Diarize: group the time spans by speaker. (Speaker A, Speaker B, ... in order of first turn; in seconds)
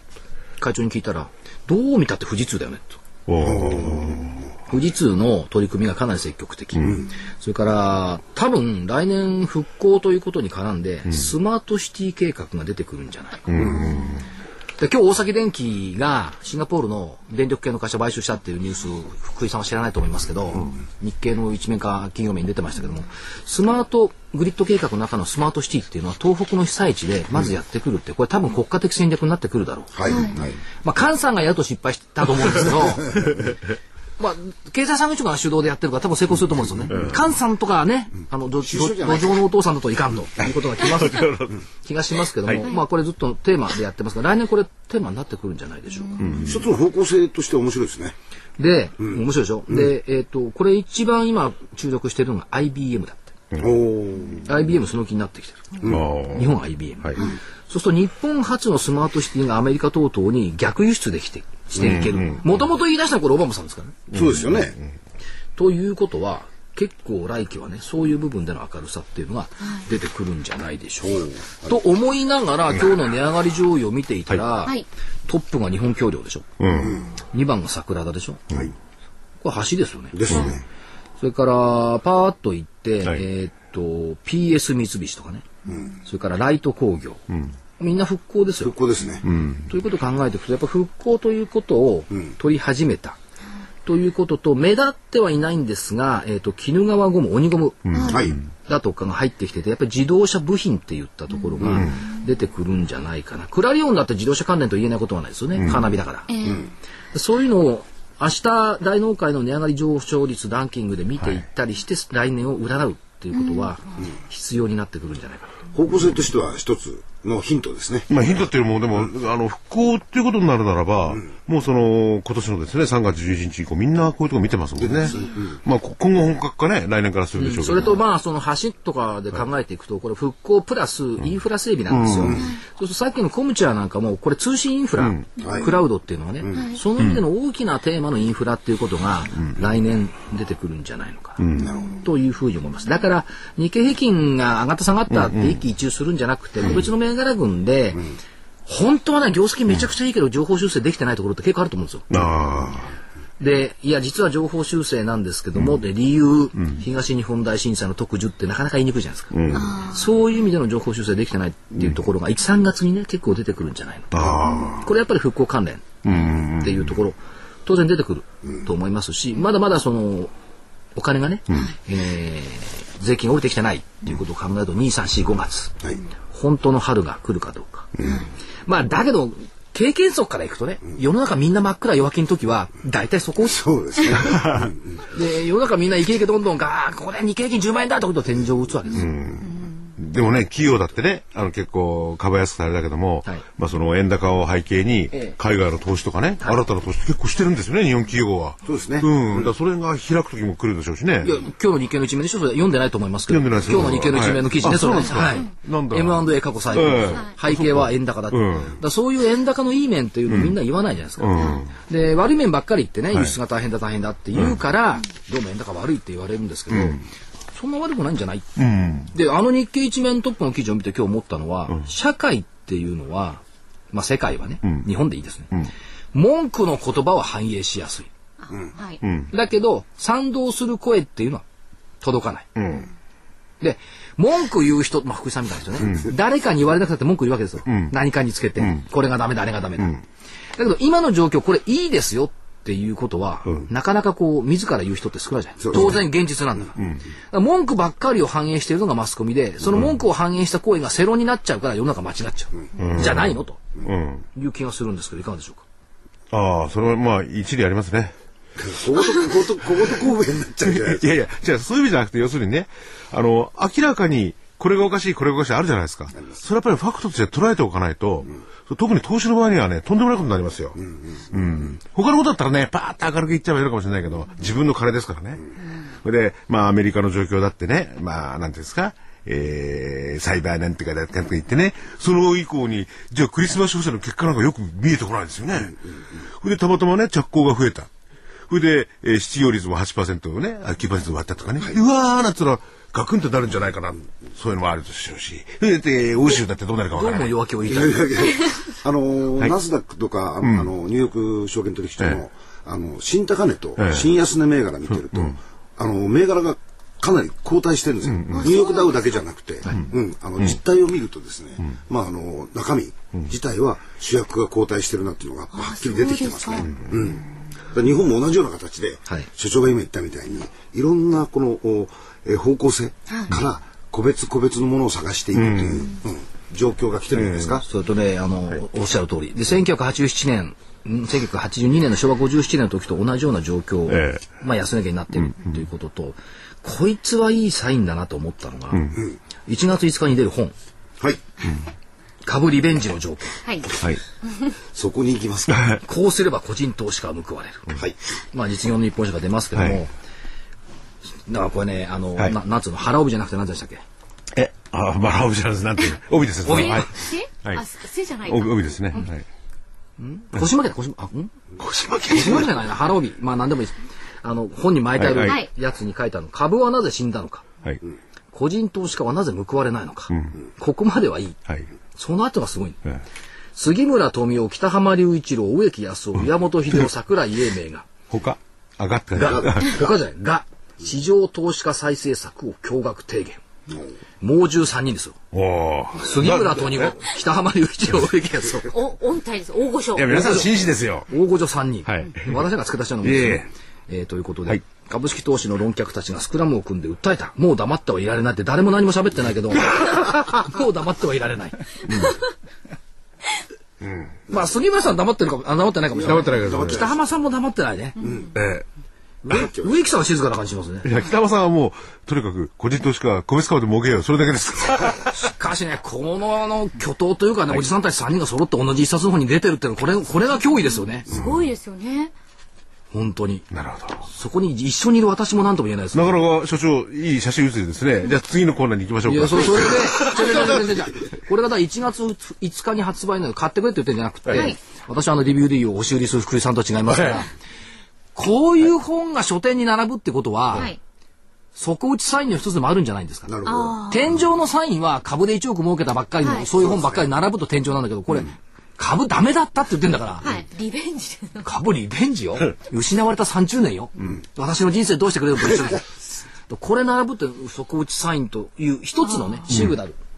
Speaker A: 0.6-3.0, 4.7-13.8, 14.8-33.3, 34.2-46.4, 48.6-53.3, 54.4-64.0, 65.6-76.5, 77.3-78.4, 79.4-80.5, 81.2-85.5, 86.0-87.2, 87.8-88.8, 89.7-93.2, 93.8-106.3, 107.1-115.5, 127.4-141.4, 142.0-148.0, 148.7-152.1, 153.4-170.3, 170.9-175.8, 176.3-177.9, 178.7-183.6, 185.1-189.1, 201.2-218.5, 219.1-228.1, 229.3-231.4, 232.0-232.5, 233.6-240.0, 240.6-246.8, 247.3-253.6, 254.3-255.6, 296.9-298.2, 327.6-340.5, 342.2-343.4, 345.8-347.7, 348.3-349.9, 351.3-353.8, 356.4-356.9, 360.0-361.3, 362.1-367.4, 368.3-371.4, 371.9-372.8, 373.5-377.9, 379.1-383.4, 384.2-385.2, 386.0-388.8, 390.1-390.5, 391.1-401.8, 404.3-408.0, 409.2-410.9, 415.1-421.1, 422.9-423.5, 424.1-426.2, 429.1-437.3, 438.1-440.7, 441.6-450.3, 451.4-455.9, 456.5-460.0
Speaker B: 3.3-4.3, 13.5-14.2, 33.1-33.6, 36.9-37.2, 40.8-41.6, 46.2-46.6, 53.5-53.8, 55.9-57.2, 61.8-62.4, 64.1-64.8, 76.6-77.0, 89.2-89.7, 97.9-98.4, 101.7-102.0, 118.1-128.0, 131.9-132.4, 135.0-135.2, 141.4-141.8, 145.1-145.6, 152.1-152.9, 159.3-159.8, 164.1-164.9, 166.0-166.9, 184.2-184.7, 188.9-201.4, 203.3-208.8, 210.3-210.5, 211.2-211.7, 216.7-217.0, 218.6-219.1, 229.0-229.3, 232.6-232.9, 235.8-236.1, 237.7-237.9, 245.7-246.0, 246.8-247.0, 252.8-254.2, 256.3-258.1, 260.6-285.8, 286.4-287.9, 288.5-297.3, 300.4-300.7, 303.8-304.1, 308.0-308.6, 325.3-325.9, 327.1-327.6, 333.9-334.2, 335.1-335.6, 338.7-339.0, 345.5-345.8, 354.3-357.6, 358.2-359.2, 361.6-362.5, 364.9-365.4, 370.1-370.4, 378.1-379.8, 385.3-386.9, 389.9-391.1, 391.8-392.4, 393.0-393.5, 401.9-402.1, 403.8-404.1, 406.0-406.9, 408.3-408.6, 410.8-415.1, 421.1-421.4, 423.5-424.1, 425.9-430.6, 459.5-459.8
Speaker C: 3.4-4.4, 29.9-30.6, 38.6-39.4, 46.4-48.1, 53.6-54.5, 64.1-64.8, 76.8-77.0, 80.1-80.6, 85.7-85.9, 88.6-89.2, 97.9-98.4, 101.6-101.9, 115.7-118.1, 124.8-125.6, 132.0-132.5, 135.4-135.8, 136.4-136.7, 141.6-142.0, 178.0-178.2, 183.4-184.8, 198.6-199.5, 245.6-246.0, 258.6-261.1, 270.8-271.6, 297.7-327.6, 344.7-345.8, 406.0-406.9, 408.0-408.4, 409.3-409.8, 443.3-443.9, 446.6-447.0
Speaker D: 30.1-30.4, 106.3-106.6, 159.5-160.0, 228.4-229.0, 308.3-309.0, 315.5-316.7, 356.7-358.6, 388.7-390.1, 421.0-422.1, 443.4-444.0, 450.2-451.4